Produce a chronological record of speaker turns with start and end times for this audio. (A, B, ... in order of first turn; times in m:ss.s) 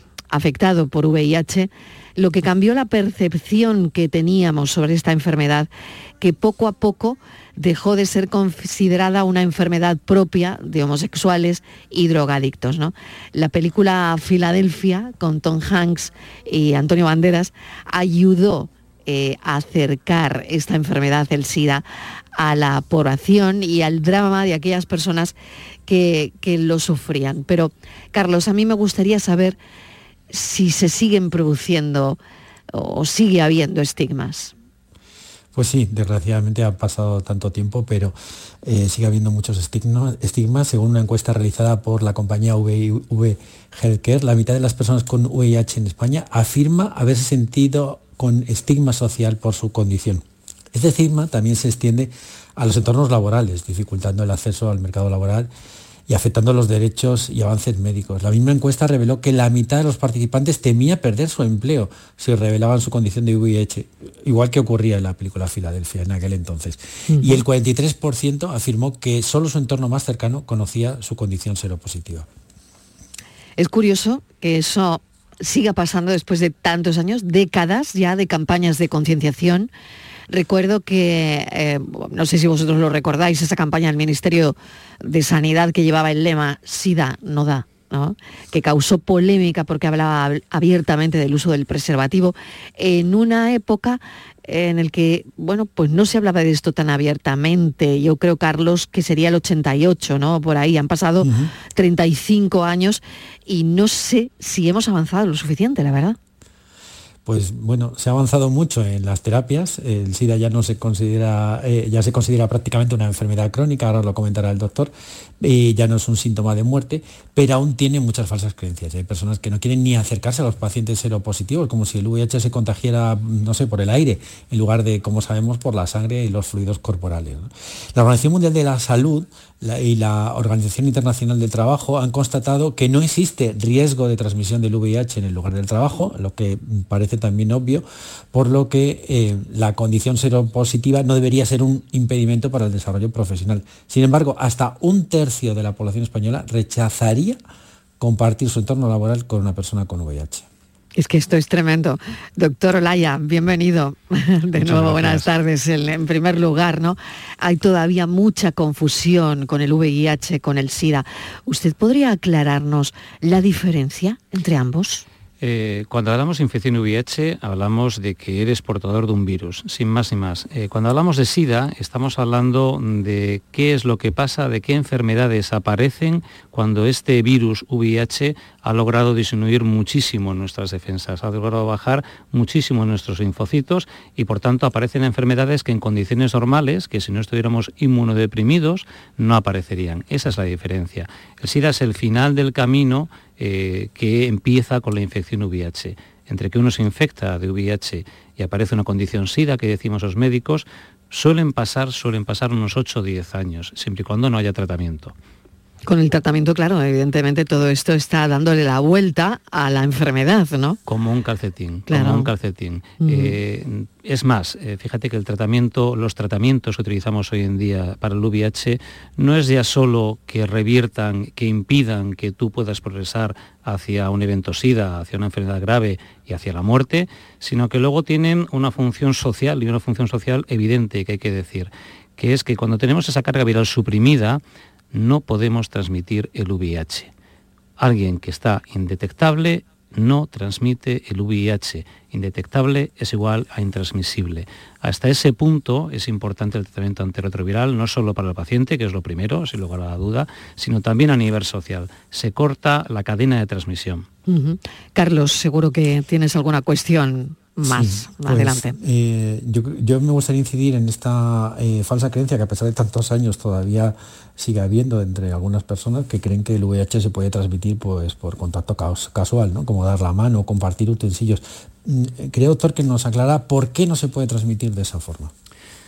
0:00.3-0:25.3 A
0:25.9-0:29.6 A
0:30.3-0:32.2 A
0:32.7-0:34.5 A
0:35.5-0:55.5 B
0:56.1-1:12.3 B
1:07.1-1:07.4 A
1:13.6-1:19.7 A
1:20.3-1:46.2 A
1:41.2-1:41.5 B
1:47.2-2:27.4 B
2:28.0-2:30.5 B
2:31.0-2:45.0 A
2:34.6-2:35.3 C
2:45.4-3:25.1 C
3:25.9-3:30.8 A
3:30.9-3:54.4 C
3:31.9-3:32.3 A
3:33.0-3:33.4 A
3:54.9-3:57.1 C
3:57.8-4:14.1 C
4:14.3-4:18.8 A
4:17.7-4:35.3 B